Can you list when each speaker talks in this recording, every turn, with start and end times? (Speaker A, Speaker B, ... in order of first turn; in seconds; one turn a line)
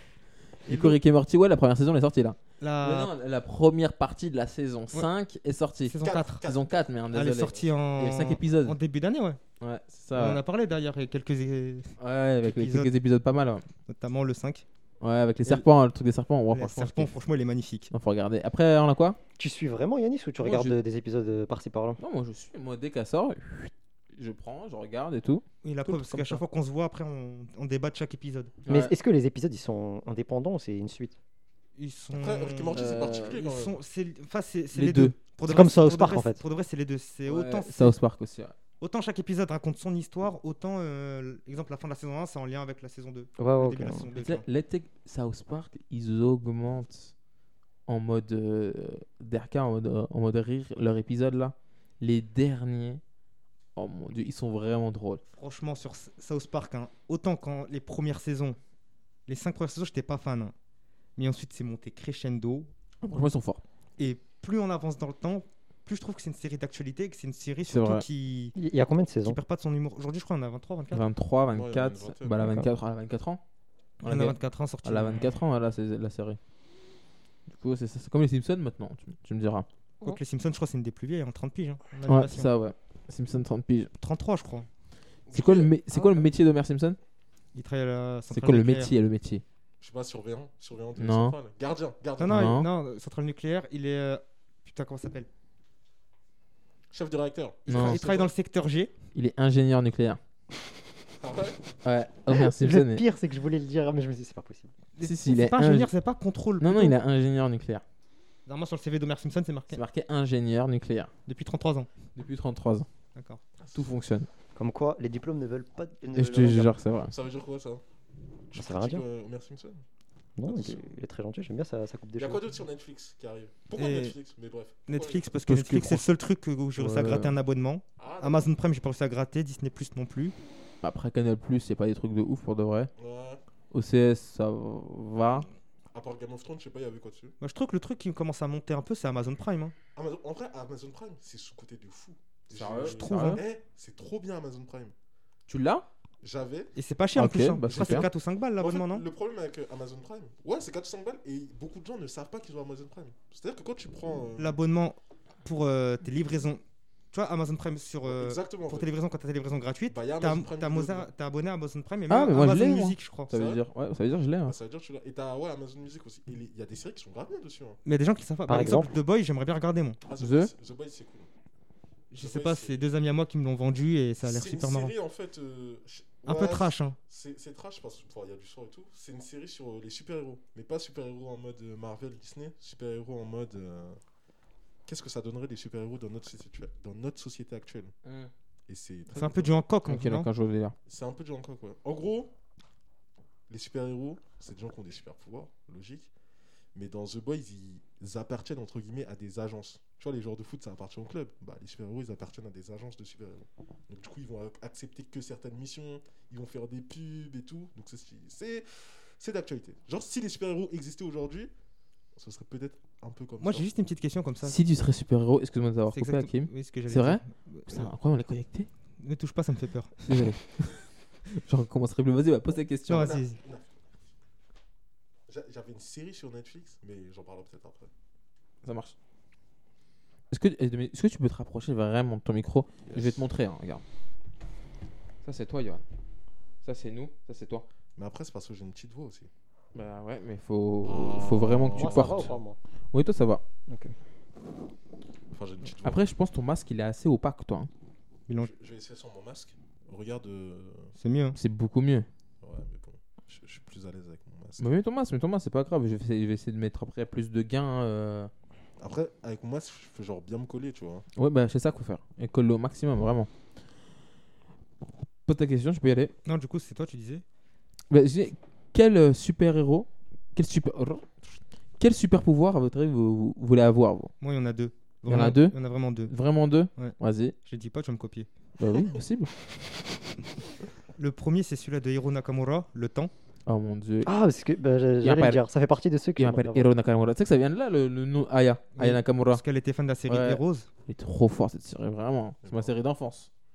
Speaker A: 0.7-8.8
Speaker B: 0.7-1.0
Speaker B: 2.6-3.1
Speaker B: 5.8-6.4
Speaker C: 6.0-7.8
Speaker B: 7.1-9.4
Speaker A: 9.6-10.4
Speaker B: 10.1-12.9
Speaker A: 12.0-13.6
Speaker B: 13.9-14.6
Speaker A: 15.0-17.1
Speaker B: 16.5-17.9
Speaker A: 17.9-19.2
Speaker D: 19.4-22.0
Speaker A: 20.4-20.8
Speaker A: 22.0-25.4
Speaker B: 25.6-28.5
Speaker D: 25.9-26.4
Speaker A: 28.6-28.9
Speaker D: 28.7-31.1
Speaker B: 31.8-38.0
Speaker C: 32.1-33.8
Speaker A: 32.7-33.3
Speaker A: 34.7-35.1
Speaker D: 35.4-36.4
Speaker A: 37.2-38.5
Speaker B: 38.8-44.4
Speaker D: 43.4-44.1
Speaker A: 44.1-47.1
Speaker A: 47.9-53.0
Speaker A: 53.8-55.2
Speaker B: 55.3-58.6
Speaker B: 59.3-60.5
Speaker B: 61.2-62.7
Speaker A: 63.0-63.6
Speaker B: 64.0-68.5
Speaker A: 67.6-68.0
Speaker D: 68.5-69.4
Speaker B: 69.2-71.0
Speaker A: 70.9-73.4
Speaker C: 71.5-72.5
Speaker A: 74.0-76.4
Speaker B: 74.0-75.3
Speaker A: 77.5-79.7
Speaker B: 80.0-82.5
Speaker A: 82.0-83.9
Speaker B: 84.0-84.7
Speaker C: 85.3-85.7
Speaker A: 85.3-87.0
Speaker B: 87.5-88.9
Speaker A: 88.3-89.4
Speaker C: 89.8-92.6
Speaker A: 91.0-91.4
Speaker B: 92.2-95.3
Speaker A: 92.3-92.7
Speaker C: 96.9-98.3
Speaker B: 97.7-98.9
Speaker A: 97.7-98.0
Speaker A: 99.1-100.2
Speaker C: 101.2-101.6
Speaker A: 101.8-103.0
Speaker D: 102.3-104.7
Speaker B: 105.0-107.0
Speaker A: 105.0-105.9
Speaker A: 106.6-107.8
Speaker B: 108.5-109.8
Speaker A: 109.7-111.1
Speaker B: 111.3-111.9
Speaker A: 112.1-112.9
Speaker B: 113.1-113.4
Speaker C: 113.6-113.9
Speaker A: 113.7-114.3
Speaker D: 114.5-116.7
Speaker A: 116.1-117.1
Speaker C: 117.1-117.8
Speaker C: 118.5-119.8
Speaker D: 118.5-119.0
Speaker D: 120.4-122.5
Speaker C: 120.4-120.8
Speaker C: 122.2-125.2
Speaker B: 123.8-124.2
Speaker B: 124.9-130.3
Speaker A: 125.5-126.1
Speaker A: 126.8-127.3
Speaker C: 128.0-128.5
Speaker A: 130.8-132.9
Speaker C: 133.0-133.4
Speaker A: 133.7-135.5
Speaker C: 135.9-137.3
Speaker B: 137.4-139.7
Speaker C: 139.9-144.9
Speaker A: 142.5-143.4
Speaker B: 142.8-143.4
Speaker A: 145.5-145.8
Speaker C: 146.2-146.7
Speaker B: 146.7-149.0
Speaker A: 147.1-148.1
Speaker C: 147.7-154.6
Speaker B: 154.4-163.3
Speaker C: 158.0-158.9
Speaker C: 159.9-161.1
Speaker A: 162.1-164.6
Speaker C: 163.3-163.6
Speaker C: 164.4-167.8
Speaker B: 167.8-170.0
Speaker D: 168.5-168.9
Speaker C: 170.0-171.3
Speaker A: 170.2-170.5
Speaker B: 172.1-174.9
Speaker C: 172.2-172.8
Speaker C: 174.2-184.0
Speaker B: 176.2-177.0
Speaker C: 184.9-187.9
Speaker A: 188.0-188.3
Speaker C: 188.7-189.6
Speaker B: 189.1-190.3
Speaker A: 189.8-190.7
Speaker C: 190.9-192.3
Speaker C: 193.5-196.1
Speaker C: 196.7-211.5
Speaker C: 212.1-213.7
Speaker B: 213.4-214.6
Speaker A: 214.4-218.7
Speaker B: 215.9-217.8
Speaker B: 219.0-220.0
Speaker A: 220.0-223.2
Speaker B: 222.9-223.4
Speaker C: 222.9-223.7
Speaker C: 225.3-227.9
Speaker A: 228.6-228.9
Speaker A: 230.3-233.8
Speaker C: 232.9-233.2
Speaker A: 235.2-235.8
Speaker A: 236.6-237.7
Speaker C: 238.0-239.3
Speaker A: 239.7-242.3
Speaker C: 240.8-242.4
Speaker D: 241.8-242.6
Speaker A: 242.9-243.4
Speaker D: 243.7-243.9
Speaker C: 245.3-246.0
Speaker A: 245.8-247.7
Speaker C: 248.3-250.9
Speaker B: 251.0-251.4
Speaker A: 251.3-252.1
Speaker C: 252.4-254.7
Speaker A: 254.6-258.3
Speaker C: 258.8-261.1
Speaker A: 261.1-263.3
Speaker A: 265.2-266.1
Speaker B: 266.2-267.2
Speaker A: 267.9-271.1
Speaker A: 271.8-274.1
Speaker B: 274.2-276.1
Speaker A: 275.1-277.3
Speaker B: 276.8-278.3
Speaker A: 278.6-279.3
Speaker B: 281.0-283.1
Speaker A: 283.4-284.1
Speaker D: 284.0-286.7
Speaker A: 285.0-285.4
Speaker A: 286.2-289.4
Speaker B: 288.7-290.7
Speaker A: 290.1-293.3
Speaker C: 292.4-292.7